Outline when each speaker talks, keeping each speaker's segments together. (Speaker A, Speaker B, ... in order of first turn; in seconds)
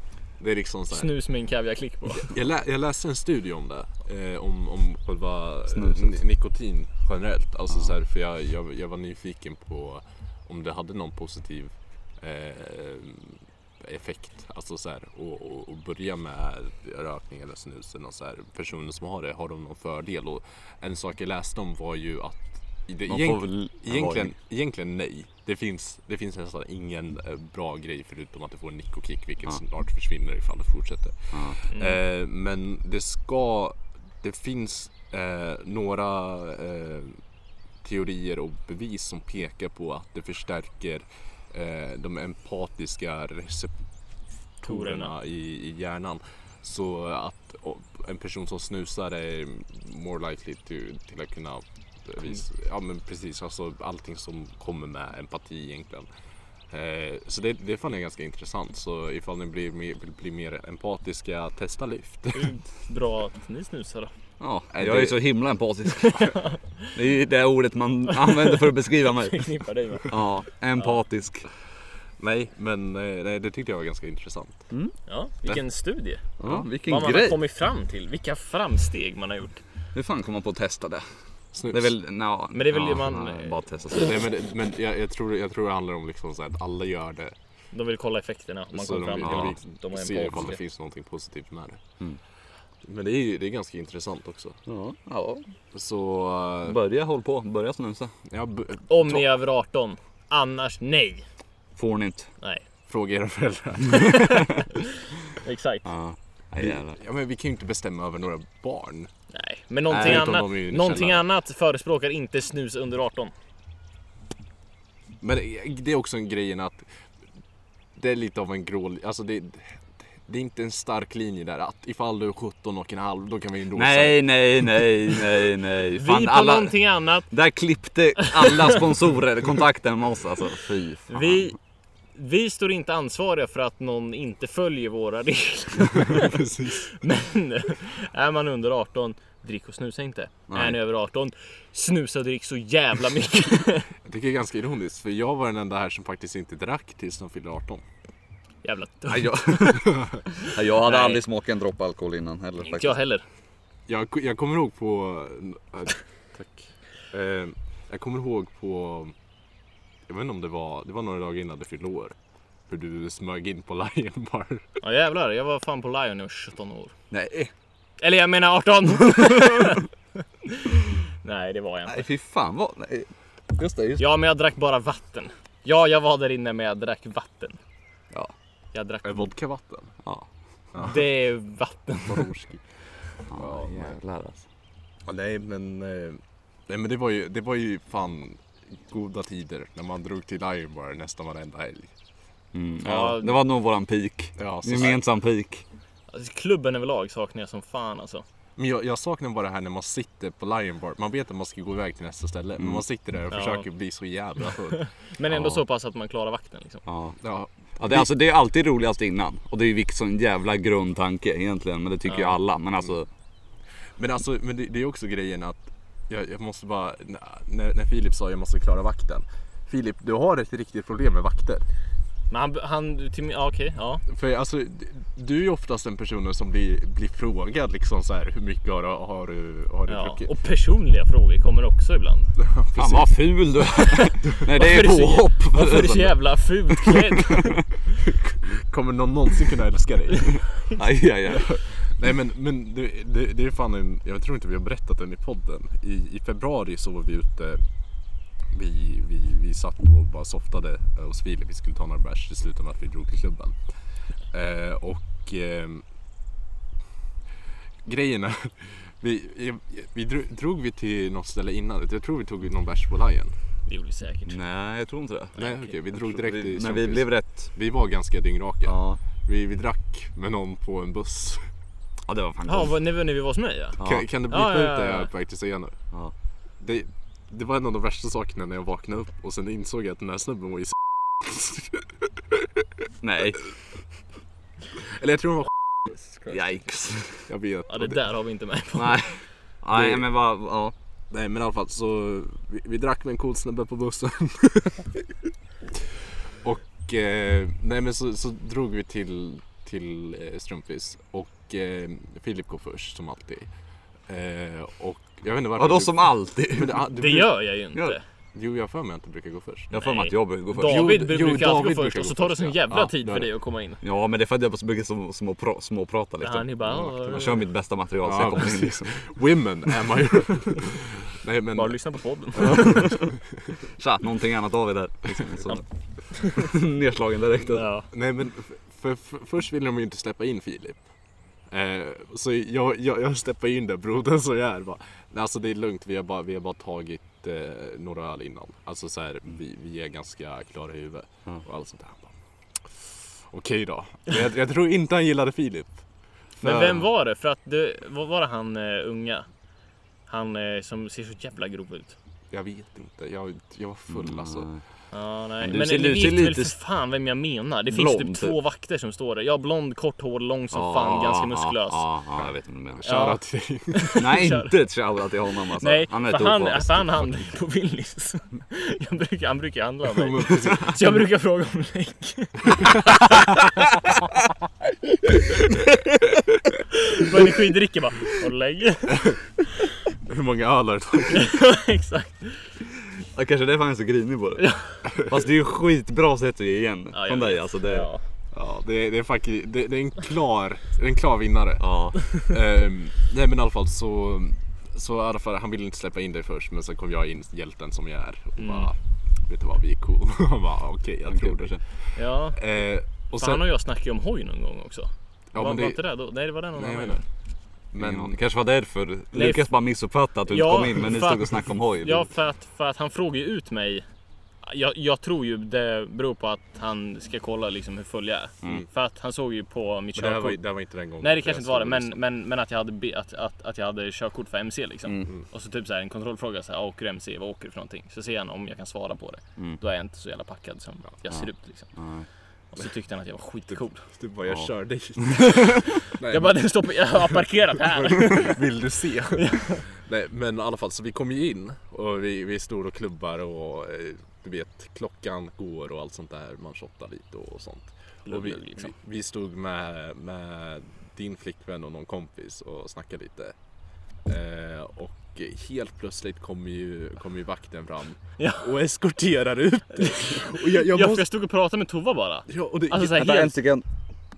Speaker A: 0.4-1.1, 2.2-37.2, 37.8-43.7, 44.6-56.1, 56.7-62.5, 64.7-65.2, 72.2-74.6, 81.5-81.9, 83.9-87.3, 88.7-91.8, 92.8-94.6, 95.7-96.8, 98.3-99.2, 102.9-104.7, 106.6-109.1, 109.9-111.2, 115.2-116.9, 118.0-124.3, 135.9-137.0, 144.1-147.8, 153.9-159.1, 160.1-162.1, 162.7-164.7, 179.1-179.9, 180.7-181.1, 182.1-182.6, 183.4-183.9, 185.1-191.9, 194.4-195.0, 198.6-204.9, 207.2-208.1, 214.0-221.6, 224.1-230.3, 232.4-233.2, 238.1-240.4, 241.3-247.6, 248.5-253.6, 254.3-255.8, 257.9-263.3, 265.4-271.5, 273.8-275.8, 276.6-281.9, 284.8-285.5, 287.3-288.0, 289.7-290.0, 291.1-294.9, 296.4-303.5, 304.1-307.4, 308.3-309.7, 310.6-313.3, 318.0-321.8, 322.4-323.0, 327.9-330.8, 331.5-342.1, 343.3-345.8, 346.4-346.8, 352.3-354.5, 362.8-364.0, 369.9-371.0, 380.1-381.4, 388.3-398.8, 399.3-401.6, 402.4-403.4, 405.3-405.8, 406.6-407.0, 407.7-408.2, 419.9-422.0, 433.9-437.1, 437.6-453.4, 454.1-461.1, 462.3-463.3
Speaker B: 0.9-2.3, 31.7-32.0, 44.6-45.1, 62.4-64.1, 65.9-66.9, 68.1-70.1, 75.1-79.6, 82.5-83.6, 87.7-90.6, 98.9-101.2, 104.0-104.7, 105.3-105.9, 109.3-113.3, 125.9-127.3, 128.2-128.7, 131.1-131.6, 132.1-143.9, 148.6-149.8, 150.7-151.2, 152.6-153.2, 164.8-166.9, 168.0-169.9, 170.4-172.1, 174.0-177.6, 178.7-179.3, 180.8-182.3, 192.8-193.3, 196.1-198.2, 203.3-203.7, 204.7-206.8, 212.1-212.4, 222.3-224.0, 229.9-232.3, 233.8-237.6, 263.7-264.4, 265.4-265.7, 272.5-273.8, 274.3-275.1, 287.7-289.1, 306.9-308.0, 309.7-313.8, 316.2-317.4, 321.6-322.9, 325.5-326.5, 327.5-327.9, 346.4-349.3, 350.1-351.9, 354.9-361.9, 362.9-364.6, 365.6-373.9, 376.7-379.1, 381.1-382.4, 384.4-384.8, 386.9-388.0, 398.4-398.7, 401.9-402.4, 403.2-407.1, 409.1-409.5, 410.3-413.9, 414.4-420.4, 421.0-431.7, 432.5-433.8, 435.2-438.4, 439.1-439.6, 448.1-448.7, 458.2-458.5, 459.7-463.4
Speaker C: 5.7-6.2, 23.1-24.3, 31.3-31.6, 64.4-66.4, 66.9-71.5, 76.4-77.4, 79.9-81.1, 81.7-84.2, 89.2-89.5, 94.7-95.4, 96.6-98.1, 101.8-102.3, 105.8-107.0, 109.9-110.3, 123.7-126.8, 127.3-131.5, 140.5-140.8, 149.1-153.0, 167.1-167.5, 171.9-174.1, 183.3-184.4, 192.5-195.6, 202.6-202.8, 205.3-205.6, 206.9-207.2, 207.8-213.1, 232.8-236.2, 236.7-237.6, 240.8-241.6, 264.3-265.4, 265.9-267.5, 268.6-269.0, 272.1-272.7, 273.8-274.1, 283.0-283.4, 286.3-287.3, 288.7-290.7, 305.6-306.8, 309.7-311.0, 313.8-318.9, 322.4-323.1, 323.7-325.6, 326.2-327.7, 353.9-354.6, 355.4-356.6, 357.7-358.4, 360.5-362.8, 364.0-367.1, 383.1-387.9, 391.6-392.0, 401.1-401.6, 407.8-412.1, 424.9-425.1, 431.1-432.1, 462.9-463.6